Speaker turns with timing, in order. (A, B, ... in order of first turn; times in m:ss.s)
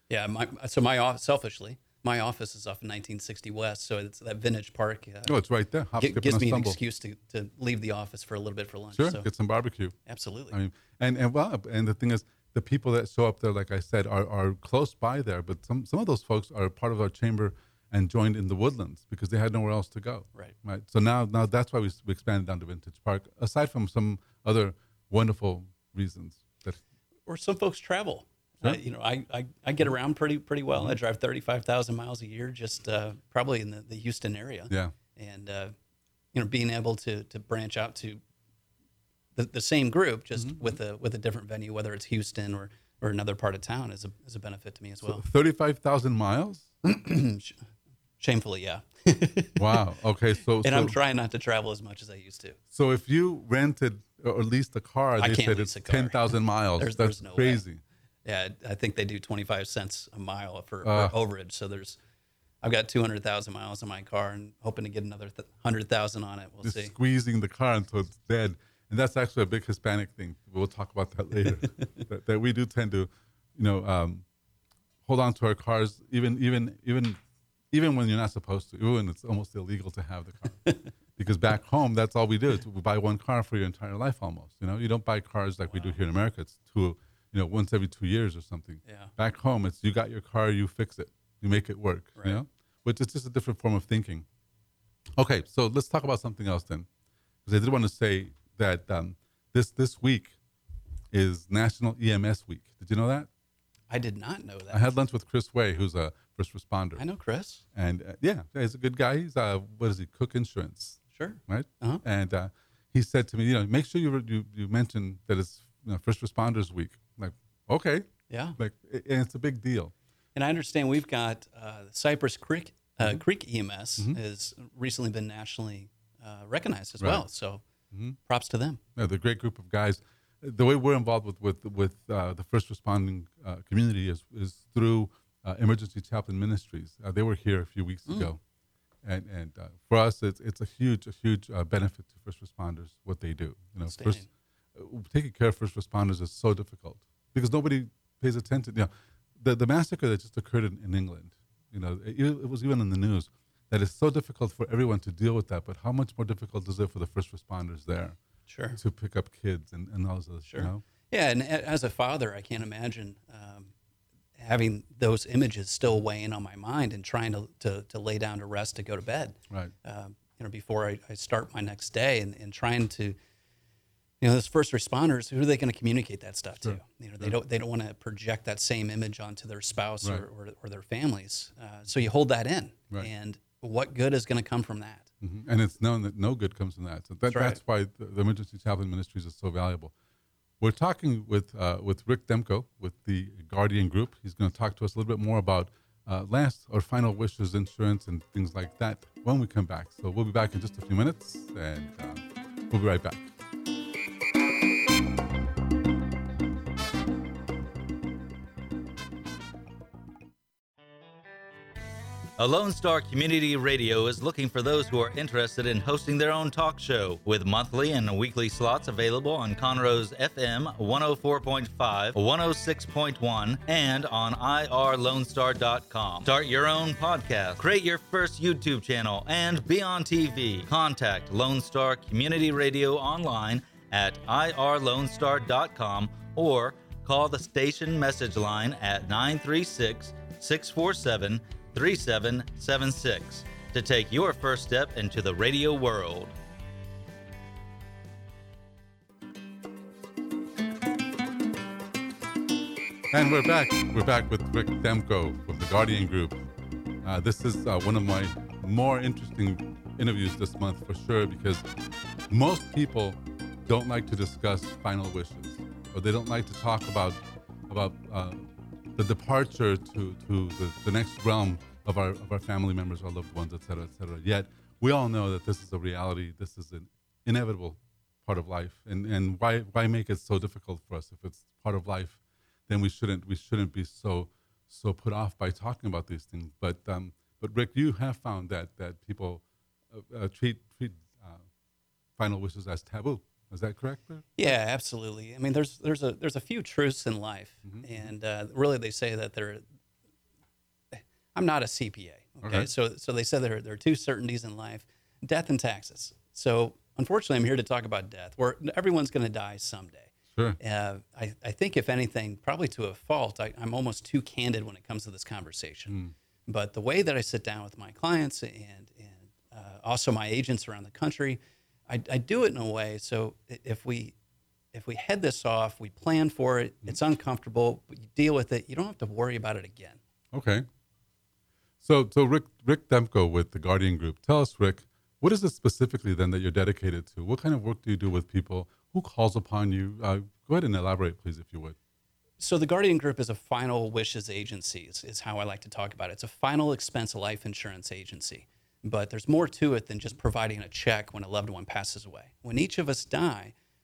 0:00.1-0:05.4 A
0:05.2-0:06.8 B
0:06.0-0:09.3 A
0:08.9-0:10.0 B
0:10.0-0:10.5 A
0:10.5-0:26.8 B
0:27.3-0:35.7 A
0:36.3-0:38.2 A
0:39.4-0:45.2 A
0:40.4-0:40.8 B
0:45.0-0:46.7 B
0:46.8-0:47.6 A
0:48.2-0:49.8 A
0:49.6-0:51.0 B
0:50.6-0:52.6 A
0:52.7-0:57.8 B
0:55.2-0:57.6 A
0:58.2-1:02.0 A
1:00.8-1:01.1 B
1:02.6-1:06.9 A
1:06.6-1:14.2 B
1:15.0-1:17.2 B
1:17.7-1:34.2 B
1:28.8-1:29.1 A
1:32.2-1:32.4 A
1:35.2-1:36.9 B
1:37.4-1:40.4 B
1:41.1-1:43.3 B
1:43.9-1:44.8 A
1:44.7-1:47.0 B
1:47.0-1:47.6 A
1:47.7-1:59.9 B
1:51.1-1:52.0 A
1:58.3-1:58.6 A
2:00.3-2:07.6 A
2:07.0-2:07.2 B
2:07.9-2:08.2 B
2:08.2-2:08.8 A
2:09.0-2:18.4 B
2:19.0-2:24.2 B
2:23.9-2:24.3 A
2:24.7-2:38.2 B
2:38.5-2:38.8 A
2:38.8-2:40.8 B
2:40.4-2:43.7 A
2:44.4-2:53.2 A
2:54.2-3:05.1 A
2:56.6-2:57.3 B
3:05.2-3:09.9 B
3:07.3-3:07.6 A
3:10.6-3:23.3 B
3:32.4-4:06.3 C
4:13.1-4:16.4 B
4:17.0-4:21.6 B
4:22.3-4:51.4 B
4:52.2-4:54.5 B
4:54.4-4:59.6 A
4:57.6-4:58.1 B
5:00.9-5:24.1 A
5:02.4-5:02.7 B
5:24.7-5:30.0 A
5:30.3-5:30.7 B
5:31.8-5:41.8 B
5:42.4-5:53.5 A